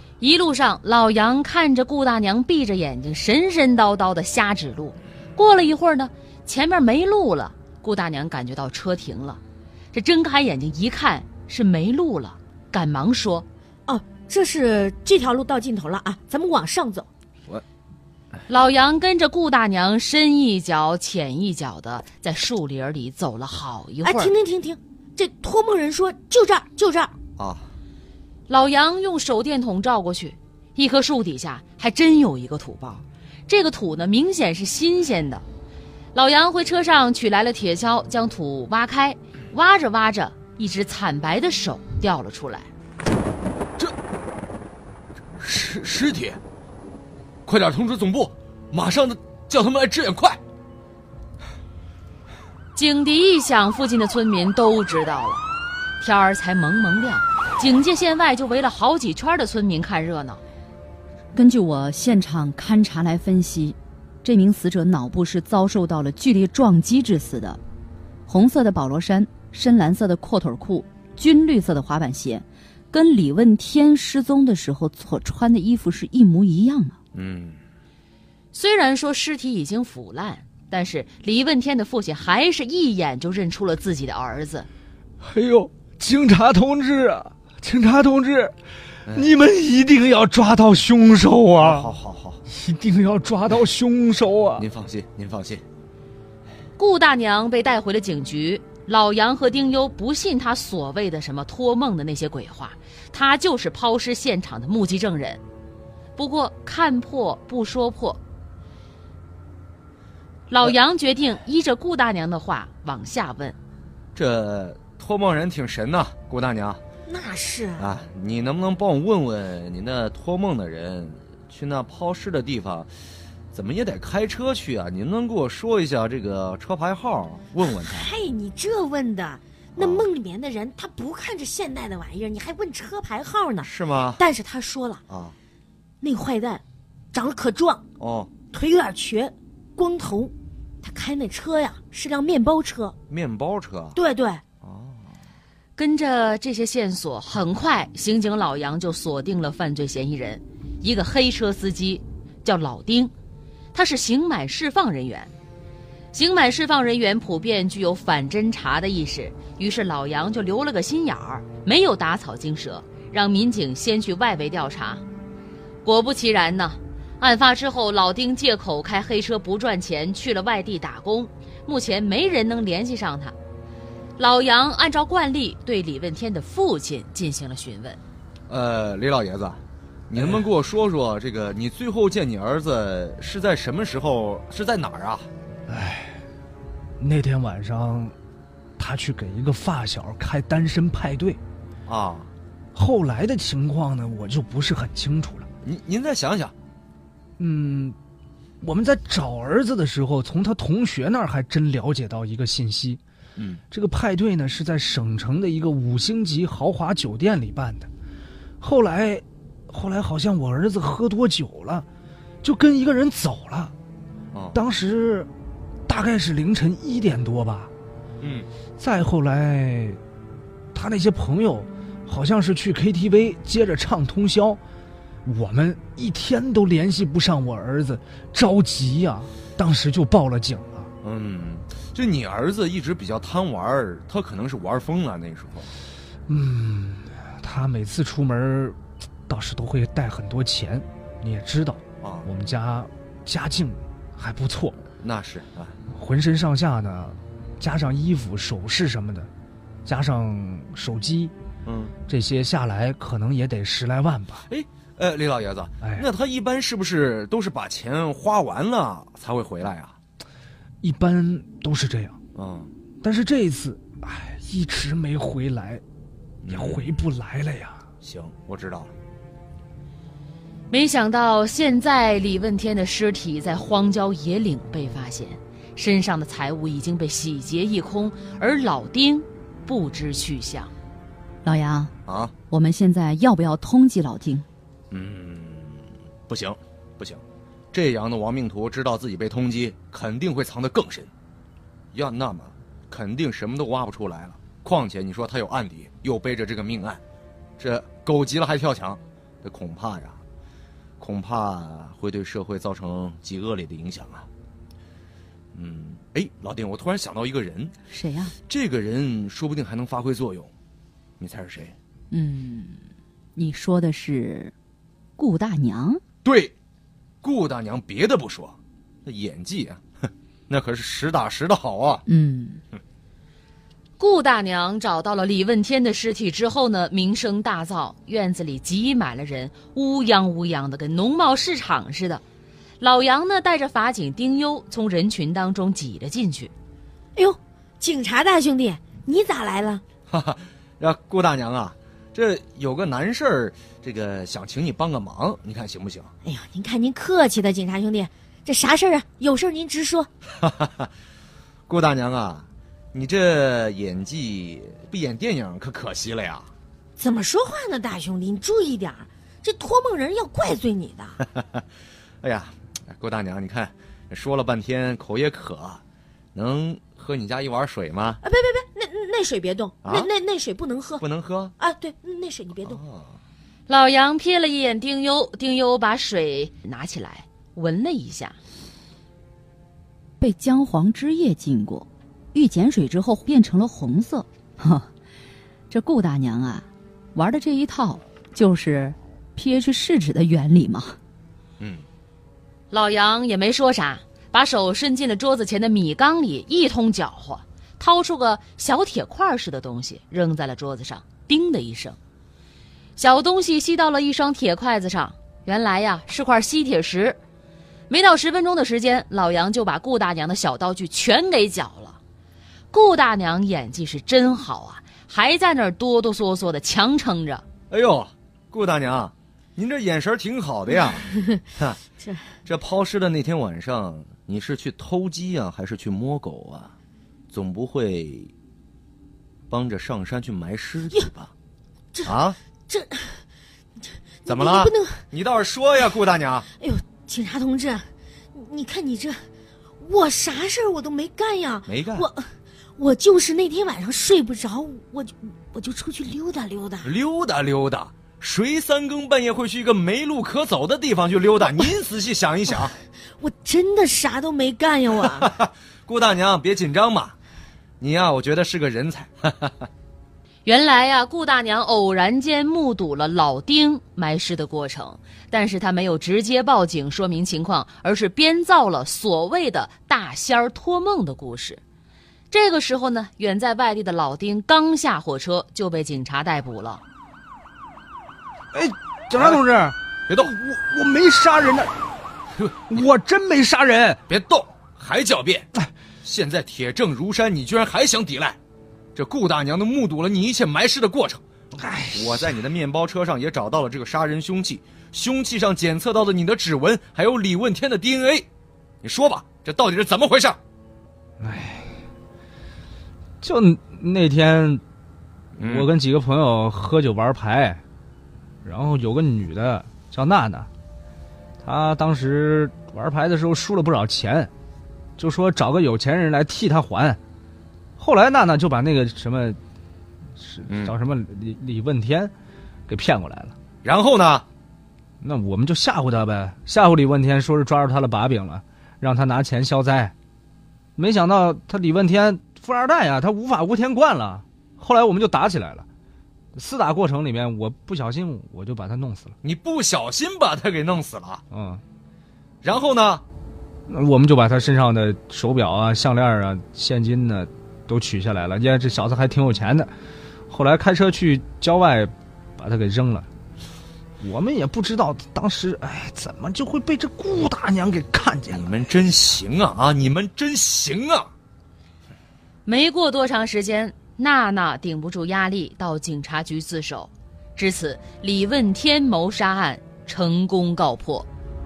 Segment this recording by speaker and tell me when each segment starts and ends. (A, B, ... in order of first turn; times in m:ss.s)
0:00.2-0:09.4 A
0:09.9-0:13.4 A
0:13.9-0:17.1 B
0:18.5-0:24.3 A
0:24.0-0:27.1 B
0:27.4-0:27.7 C
0:28.5-0:35.4 A
0:36.1-0:42.7 A
0:45.4-0:46.4 C
0:47.4-0:50.4 C
0:52.7-0:55.4 A
0:56.0-1:00.4 A
1:01.3-1:07.6 D
1:08.3-1:17.0 D
1:17.1-1:17.6 C
1:18.5-1:24.7 A
1:25.2-1:28.5 E
1:29.1-1:29.3 C
1:29.1-1:31.9 E
1:31.6-1:32.4 C
1:32.5-1:34.7 E
1:34.6-1:35.6 C
1:36.8-1:45.4 A
1:46.2-1:48.2 A
1:50.5-1:53.6 A
1:54.1-1:56.8 C
1:57.1-1:57.9 B
1:57.8-2:02.9 C
2:03.5-2:08.2 C
2:07.6-2:15.0 B
2:09.8-2:10.1 C
2:13.6-2:14.2 C
2:15.1-2:15.4 C
2:16.0-2:17.8 B
2:18.0-2:18.4 C
2:18.5-2:22.9 B
2:23.1-2:24.0 C
2:23.9-2:24.4 B
2:24.6-2:25.0 C
2:25.8-2:33.1 A
2:33.7-2:35.3 A
2:36.1-2:45.0 A
2:45.8-2:53.3 A
2:54.2-2:58.0 A
2:58.5-3:05.3 C
3:05.7-3:06.2 E
3:07.0-3:08.1 E
3:08.8-3:11.4 E
3:11.9-3:12.3 C
3:12.7-3:15.5 E
3:15.6-3:16.5 C
3:17.4-3:18.0 E
3:18.6-3:23.0 E
3:23.4-3:23.6 C
3:23.7-3:27.9 E
3:28.6-3:31.8 E
3:32.4-3:33.7 E
3:34.3-3:34.6 C
3:34.5-3:35.3 E
3:35.9-3:37.7 E
3:38.2-3:38.5 C
3:38.8-3:40.0 E
3:40.7-3:44.6 E
3:45.2-3:50.9 E
3:51.0-3:55.7 C
3:56.3-3:58.8 E
3:59.3-4:04.8 E
4:02.0-4:02.3 C
4:04.9-4:05.7 C
4:05.9-4:09.3 E
4:09.8-4:11.3 E
4:11.6-4:11.9 C
4:12.1-4:14.4 E
4:14.5-4:20.0 C
4:20.8-4:22.2 E
4:22.3-4:22.7 C
4:23.0-4:25.8 E
4:26.4-4:27.0 C
4:26.5-4:27.8 E
4:28.0-4:28.9 C
4:30.7-4:40.7 A
4:41.4-4:41.9 D
4:42.0-4:42.3 C
4:42.5-4:44.4 D
4:44.9-4:47.2 C
4:47.7-4:51.1 C
4:51.9-4:57.0 C
4:57.6-5:00.2 C
5:01.0-5:04.3 C
5:05.5-5:07.7 C
5:07.9-5:08.3 D
5:08.5-5:10.5 C
5:11.2-5:11.7 C
5:12.1-5:12.8 D
5:13.4-5:14.5 D
5:15.2-5:16.0 D
5:16.2-5:16.5 C
5:17.2-5:19.8 C
5:20.5-5:22.0 C
5:22.1-5:22.6 D
5:24.0-5:32.2 A
5:32.8-5:36.5 A
5:37.2-5:39.8 B
5:40.1-5:46.1 C
5:46.2-5:50.1 B
5:50.4-5:50.9 C
5:51.7-5:56.5 C
5:57.0-6:01.2 B
6:02.2-6:05.8 C
6:06.3-6:08.2 C
6:08.2-6:11.0 B
6:09.8-6:10.1 C
6:11.0-6:11.5 C
6:11.6-6:12.8 B
6:12.6-6:13.2 C
6:13.7-6:18.3 A
6:20.2-6:24.9 D
6:25.7-6:30.9 D
6:31.6-6:31.8 C
6:32.7-6:42.0 A
6:43.0-6:47.2 A
6:47.9-6:52.0 A
6:52.7-6:57.4 A
6:57.7-7:01.9 C
7:01.1-7:01.4 B
7:02.0-7:02.3 B
7:02.4-7:06.7 C
7:07.3-7:08.3 C
7:09.5-7:11.3 C
7:12.0-7:12.4 C
7:12.7-7:13.2 B
7:13.8-7:15.0 B
7:14.2-7:16.5 C
7:16.6-7:17.8 B
7:18.3-7:19.2 B
7:19.8-7:22.2 B
7:21.6-7:22.1 C
7:22.8-7:26.9 B
7:26.8-7:32.7 C
7:33.2-7:35.3 B
7:35.0-7:37.1 C
7:37.8-7:39.7 C
7:40.4-7:51.6 A
7:52.3-7:56.8 A
7:58.5-8:01.7 E
7:59.2-7:59.4 C
8:00.1-8:00.4 C
8:02.4-8:02.8 C
8:02.7-8:04.0 E
8:04.1-8:05.5 C
8:06.0-8:08.4 C
8:09.0-8:11.2 C
8:11.6-8:12.4 E
8:11.9-8:18.3 C
8:18.8-8:20.4 C
8:21.2-8:21.8 E
8:23.2-8:24.6 E
8:25.4-8:25.7 C
8:25.4-8:27.6 E
8:28.4-8:30.5 E
8:31.4-8:34.3 E
8:35.0-8:37.0 E
8:37.8-8:39.4 E
8:40.2-8:42.1 E
8:40.5-8:40.7 C
8:42.7-8:43.4 E
8:43.6-8:44.2 C
8:45.0-8:49.9 E
8:50.8-8:55.6 E
8:56.3-8:59.1 E
8:59.2-9:01.2 C
9:01.3-9:01.6 E
9:02.4-9:03.0 C
9:03.7-9:09.7 E
9:10.3-9:13.0 E
9:14.0-9:18.5 E
9:18.3-9:21.1 C
9:22.4-9:31.1 A